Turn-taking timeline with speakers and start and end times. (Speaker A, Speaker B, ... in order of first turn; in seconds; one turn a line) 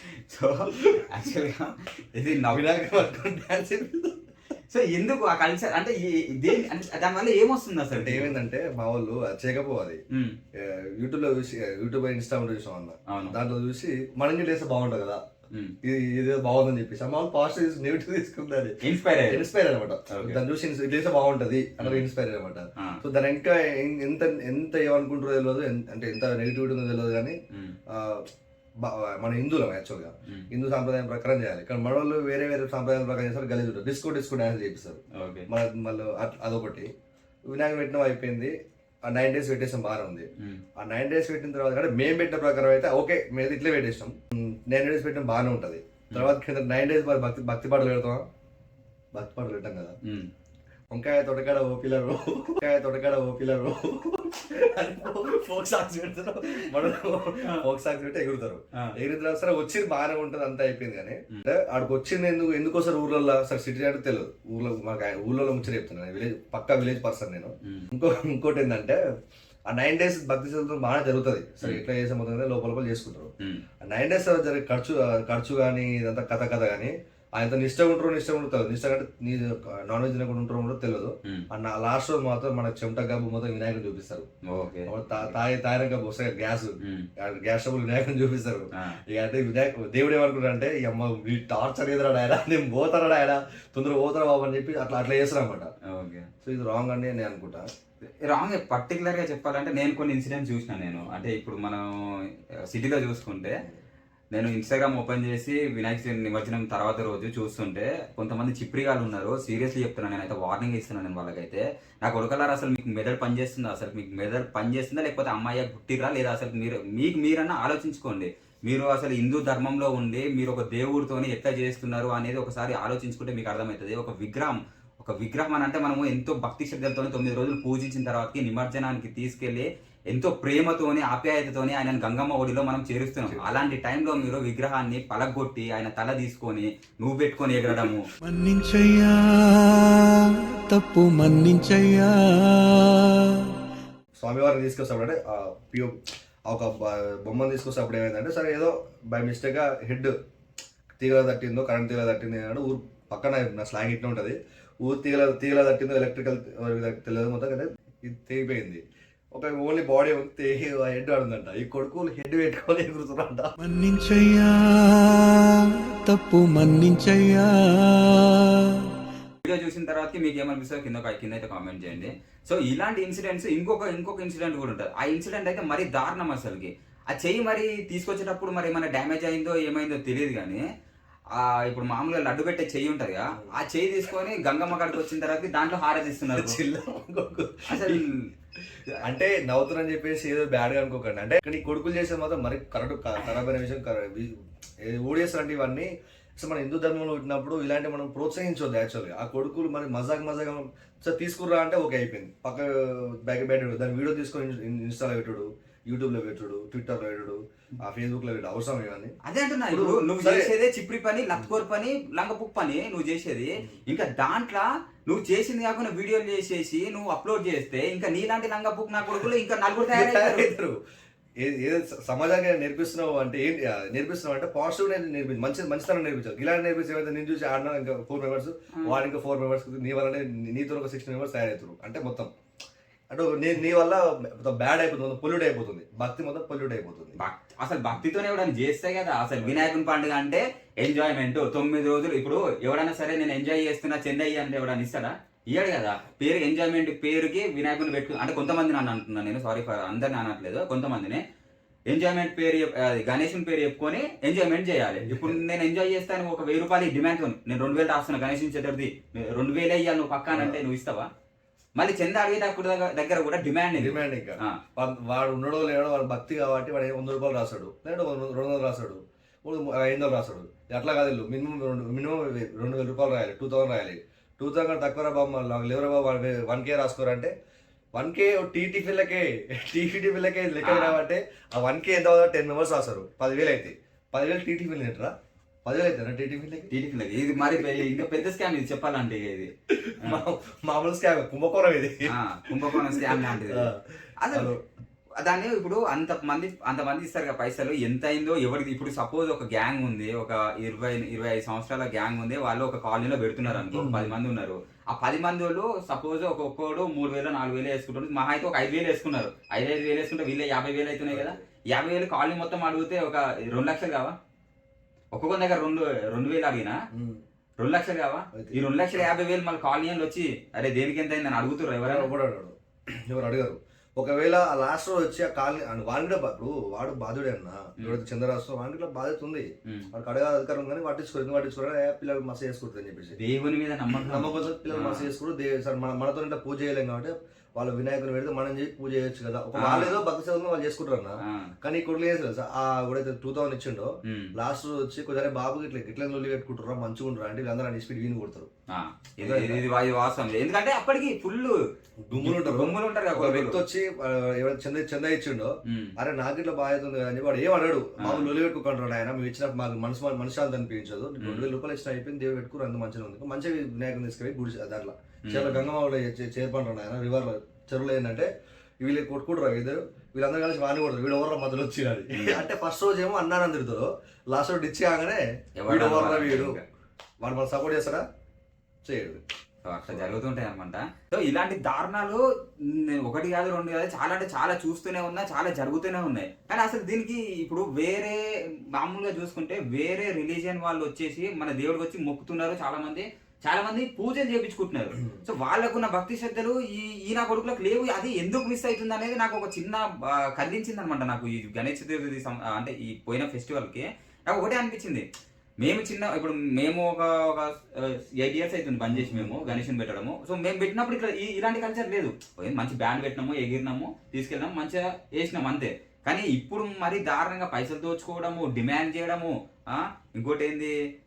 Speaker A: 0.3-2.8
Speaker B: 0.7-1.2
Speaker B: 2.5-4.2
Speaker A: 4.7-8.3
Speaker B: 7.9-10.0
Speaker A: 10.1-10.4
Speaker B: 10.6-15.2
Speaker A: 13.1-13.4
Speaker B: 15.8-27.3
Speaker A: 18.8-19.5
Speaker A: 20.1-20.4
Speaker A: 21.8-22.1
Speaker A: 27.5-27.8
Speaker B: 27.9-28.3
Speaker B: 28.8-36.9
Speaker A: 35.1-35.5
Speaker B: 37.5-38.5
Speaker B: 39.0-48.2
Speaker B: 49.1-50.0
Speaker A: 50.0-50.3
Speaker B: 50.9-69.0
Speaker B: 69.7-84.2
Speaker A: 84.5-85.3
Speaker B: 84.9-95.7
Speaker A: 86.8-87.1
Speaker A: 88.7-89.0
Speaker A: 95.9-96.3
Speaker B: 96.4-97.7
Speaker A: 98.2-101.9
Speaker A: 102.7-103.6
Speaker A: 104.3-138.1
Speaker B: 133.2-133.6
Speaker C: 138.2-143.6
Speaker B: 144.2-146.0
Speaker B: 146.5-150.1
Speaker B: 151.0-158.8
Speaker B: 159.3-163.5
Speaker C: 163.6-169.0
Speaker A: 169.4-180.6
Speaker A: 181.3-186.6
Speaker B: 186.3-188.0
Speaker A: 187.7-188.3
Speaker B: 189.0-209.2
Speaker A: 209.2-220.5
Speaker B: 209.7-210.5
Speaker B: 219.9-220.8
Speaker B: 221.4-232.3
Speaker B: 233.1-237.2
Speaker A: 237.2-251.2
Speaker B: 239.4-239.7
Speaker A: 251.9-261.1
Speaker B: 255.0-255.4
Speaker B: 260.3-260.6
Speaker A: 261.8-264.6
Speaker B: 263.8-277.3
Speaker B: 277.9-285.1
Speaker A: 280.6-281.0
Speaker B: 285.6-286.7
Speaker A: 286.7-289.5
Speaker B: 287.5-288.0
Speaker B: 289.7-294.6
Speaker A: 292.1-293.7
Speaker A: 294.2-294.5
Speaker A: 295.2-314.1
Speaker B: 303.6-304.1
Speaker B: 311.1-311.4
Speaker A: 315.1-316.8
Speaker B: 316.9-317.2
Speaker A: 317.6-322.1
Speaker B: 318.3-319.1
Speaker B: 321.8-333.2
Speaker A: 333.2-335.1
Speaker B: 333.9-348.5
Speaker A: 339.6-340.0
Speaker A: 341.2-341.5
Speaker A: 344.0-344.3
Speaker A: 348.7-351.6
Speaker B: 349.2-349.6
Speaker B: 352.1-368.3
Speaker A: 352.2-353.6
Speaker A: 355.6-355.9
Speaker A: 358.0-358.3
Speaker A: 361.2-361.5
Speaker A: 365.2-365.7
Speaker B: 368.8-376.6
Speaker A: 372.1-372.4
Speaker A: 375.6-376.6
Speaker B: 377.2-378.0
Speaker B: 378.8-379.2
Speaker A: 379.6-405.0
Speaker B: 379.9-380.1
Speaker A: 405.6-420.7
Speaker B: 408.9-409.6